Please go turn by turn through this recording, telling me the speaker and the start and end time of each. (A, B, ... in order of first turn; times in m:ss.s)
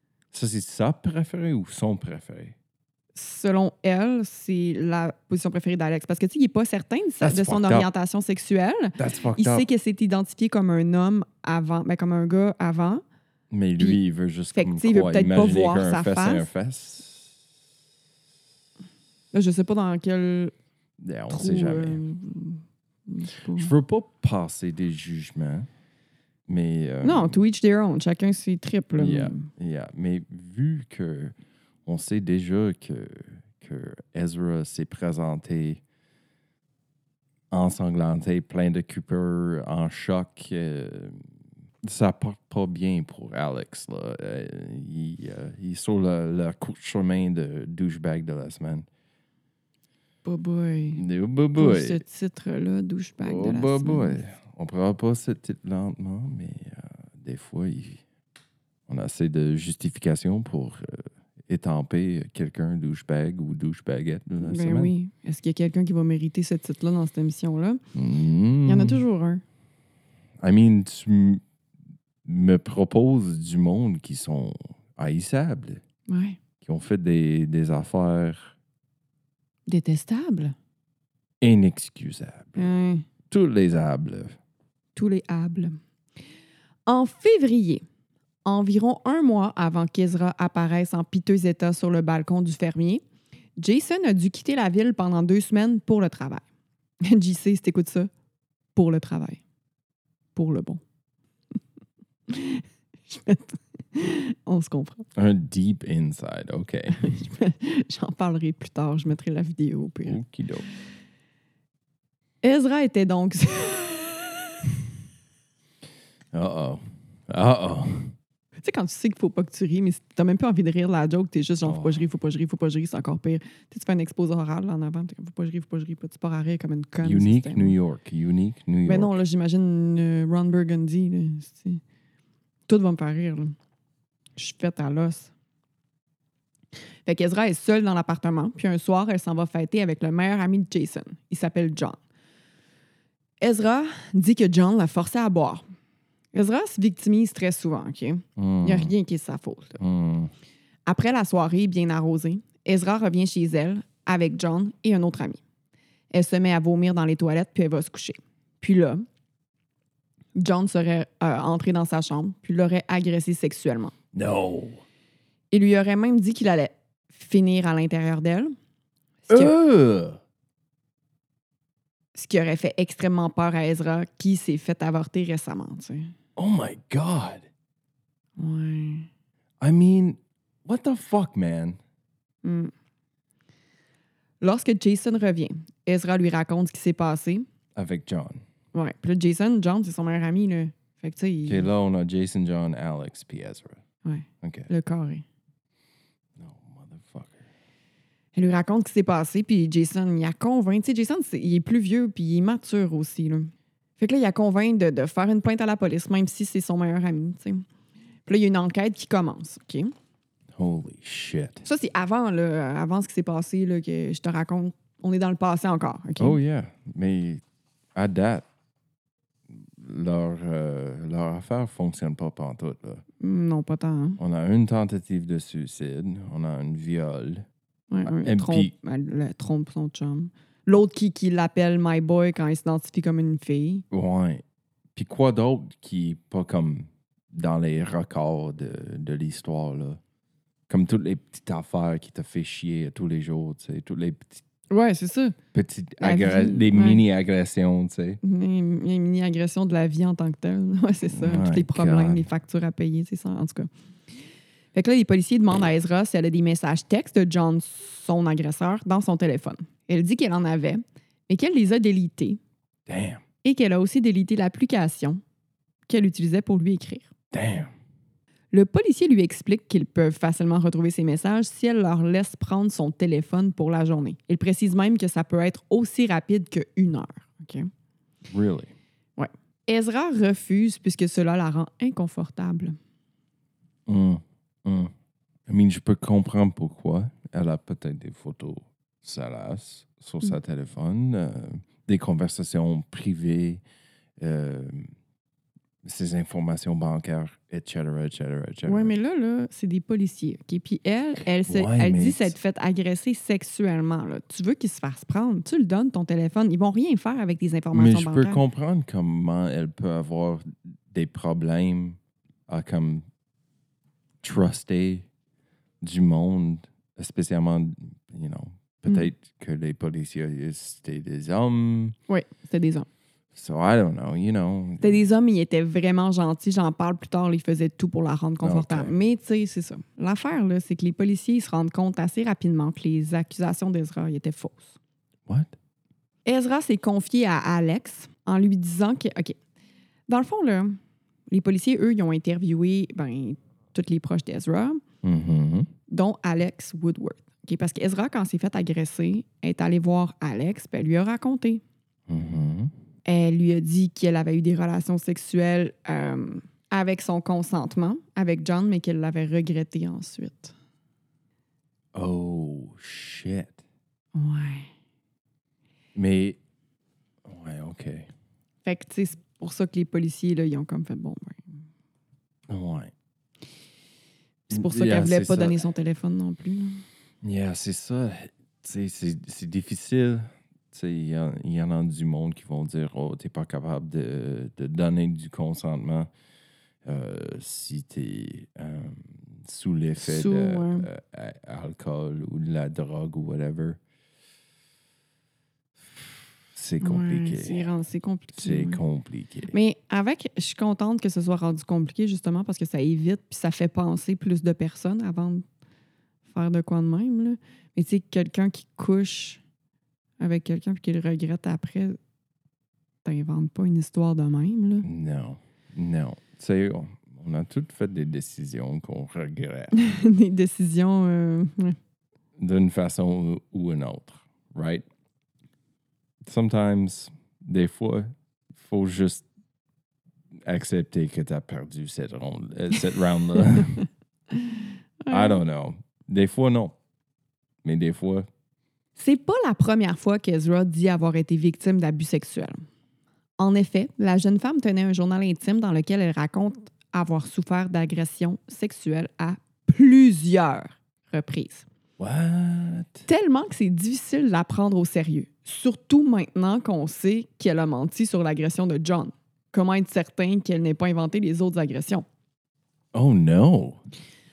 0:00.3-0:02.5 A
0:03.2-0:13.0 B
0:07.2-0:07.9 A
0:09.0-0:09.7 A
0:13.5-0:17.3 A
0:14.5-0:16.5 B
0:19.3-0:20.5 B
0:21.0-0:22.0 A
0:21.3-0:23.7 B
0:23.5-0:25.7 A
0:26.5-0:27.3 A
0:27.0-0:29.5 B
0:29.0-0:35.8 A
0:37.5-0:41.2 A
0:41.8-0:48.9 A
0:50.2-0:51.0 B
0:51.0-0:52.0 A
0:51.6-0:54.2 B
0:53.2-0:58.0 A
0:58.9-1:04.9 A
1:04.4-1:07.8 B
1:07.9-1:09.0 A
1:08.7-1:09.4 B
1:10.4-1:11.4 A
1:12.2-1:15.8 A
1:16.1-1:16.4 B
1:16.6-1:18.6 A
1:19.7-1:20.6 B
1:21.4-1:22.7 A
1:22.6-1:23.1 B
1:23.3-1:24.4 A
1:25.0-1:25.8 B
1:26.9-1:27.8 B
1:28.4-1:33.0 B
1:33.6-1:36.4 B
1:37.0-1:38.1 B
1:38.8-1:39.4 B
1:40.4-1:40.8 B
1:42.3-1:45.1 B
1:45.2-1:47.2 A
1:47.0-1:50.2 B
1:50.1-1:50.7 A
1:52.4-1:54.6 B
1:56.3-1:58.1 A
1:58.6-2:07.8 B
2:01.6-2:02.1 A
2:07.0-2:09.1 A
2:08.9-2:11.8 B
2:12.7-2:13.6 B
2:14.4-2:15.3 B
2:17.1-2:22.0 B
2:23.4-2:25.6 B
2:26.3-2:29.8 B
2:28.4-2:28.9 A
2:29.8-2:30.3 A
2:30.9-2:35.4 B
2:36.1-2:39.0 B
2:40.4-2:43.9 B
2:44.1-2:44.8 A
2:45.5-2:48.5 B
2:49.3-2:49.6 B
2:49.3-2:50.2 A
2:52.2-2:56.1 B
2:56.4-2:57.4 A
2:58.4-2:59.1 B
2:59.6-3:01.8 A
3:02.4-3:02.7 B
3:04.4-3:07.5 B
3:07.8-3:08.4 A
3:08.7-3:11.7 B
3:11.5-3:13.8 A
3:14.0-3:15.2 B
3:14.4-3:14.7 A
3:16.4-3:17.5 A
3:18.4-3:27.6 B
3:28.3-3:29.9 B
3:30.6-3:31.6 A
3:31.6-3:36.4 B
3:36.2-3:37.4 A
3:38.0-3:38.4 A
3:39.5-3:43.0 A
3:43.2-3:44.2 B
3:44.2-3:47.5 A
3:47.9-3:53.8 B
3:48.1-3:48.7 A
3:53.9-3:54.4 A
3:55.0-4:00.0 A
4:00.7-4:04.4 A
4:04.7-4:05.4 B
4:05.5-4:08.2 A
4:06.0-4:07.0 B
4:08.2-4:13.7 B
4:11.1-4:12.3 A
4:14.7-4:22.4 B
4:22.9-4:23.2 A
4:23.4-4:25.2 B
4:25.9-4:27.1 B
4:27.3-4:27.7 A
4:28.5-4:37.7 B
4:38.3-4:38.7 A
4:39.2-4:42.8 B
4:43.9-4:44.9 A
4:45.5-4:53.6 A
4:54.2-4:54.9 A
4:55.8-4:58.9 A
4:58.7-5:08.4 B
5:01.4-5:02.4 A
5:07.7-5:13.1 A
5:14.2-5:15.1 A
5:15.8-5:22.0 A
5:22.1-5:22.9 B
5:23.3-5:25.0 A
5:24.8-5:34.8 B
5:28.4-5:28.9 A
5:36.3-5:39.4 B
5:40.1-5:40.8 B
5:41.3-5:44.8 B
5:45.0-5:45.7 A
5:45.9-5:51.6 B
5:52.1-5:52.7 A
5:53.0-6:00.5 B
6:01.9-6:03.6 A
6:04.2-6:04.7 B
6:06.0-6:06.4 A
6:07.2-6:08.1 A
6:08.6-6:11.4 B
6:12.5-6:12.9 A
6:14.5-6:16.8 B
6:14.5-6:15.6 A
6:17.2-6:26.1 A
6:26.8-6:33.8 A
6:30.0-6:30.9 B
6:35.8-6:37.7 A
6:36.8-6:38.8 B
6:38.4-6:39.5 A
6:39.5-6:45.4 B
6:46.3-6:49.4 B
6:50.2-6:52.0 B
6:53.0-6:54.9 B
6:54.8-6:59.7 A
6:59.7-7:01.8 B
7:02.4-7:04.8 A
7:06.2-7:09.2 A
7:10.4-7:13.8 A
7:14.3-7:15.4 B
7:15.1-7:16.8 A
7:17.6-7:18.3 A
7:19.0-7:22.6 B
7:23.4-7:31.7 B
7:32.0-7:33.0 A
7:33.1-7:42.0 B
7:42.9-7:43.8 A